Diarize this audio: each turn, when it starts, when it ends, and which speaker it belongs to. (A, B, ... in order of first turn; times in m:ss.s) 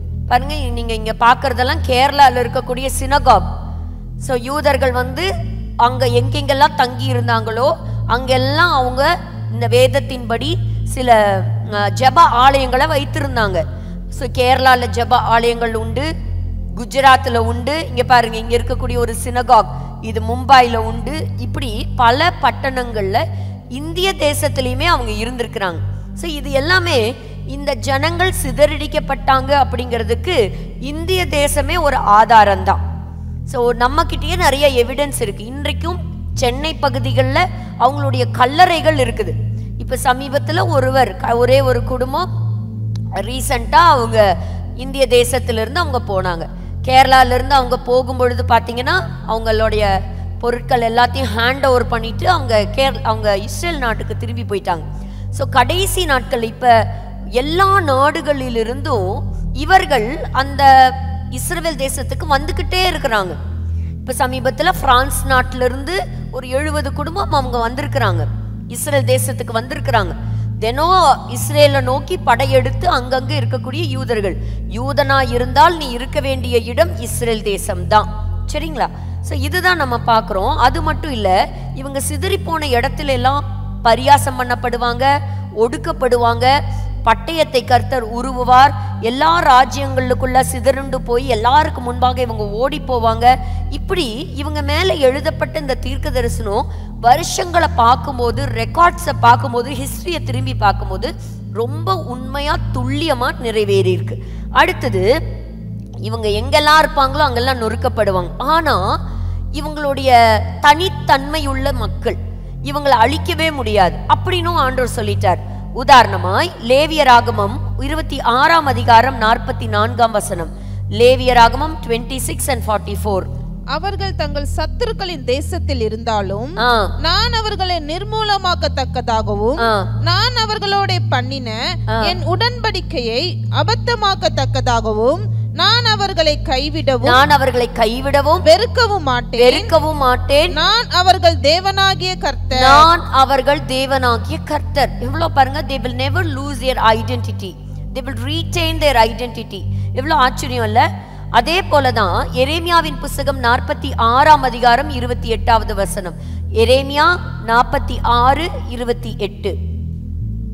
0:00.3-0:03.5 A
0:04.2-0:05.3 A
0:05.8-0:13.6 A
0:14.1-0:16.1 A
0:16.8-0:23.2 A
0:23.8-0:32.8 A
0:33.5-0:42.3 A
0:43.2-0:44.2 A
0:44.8-0:56.7 A
0:57.4-1:03.4 A
1:04.0-1:26.5 A
1:27.1-1:45.1 A
1:46.0-1:49.0 A
1:49.6-2:03.3 A
2:03.7-2:17.2 B
2:06.6-2:06.9 A
2:09.6-2:09.9 A
2:11.9-2:12.1 A
2:17.0-2:18.5 A
2:18.4-2:19.7 B
2:19.4-2:20.6 A
2:20.5-2:22.9 B
2:22.5-2:39.6 A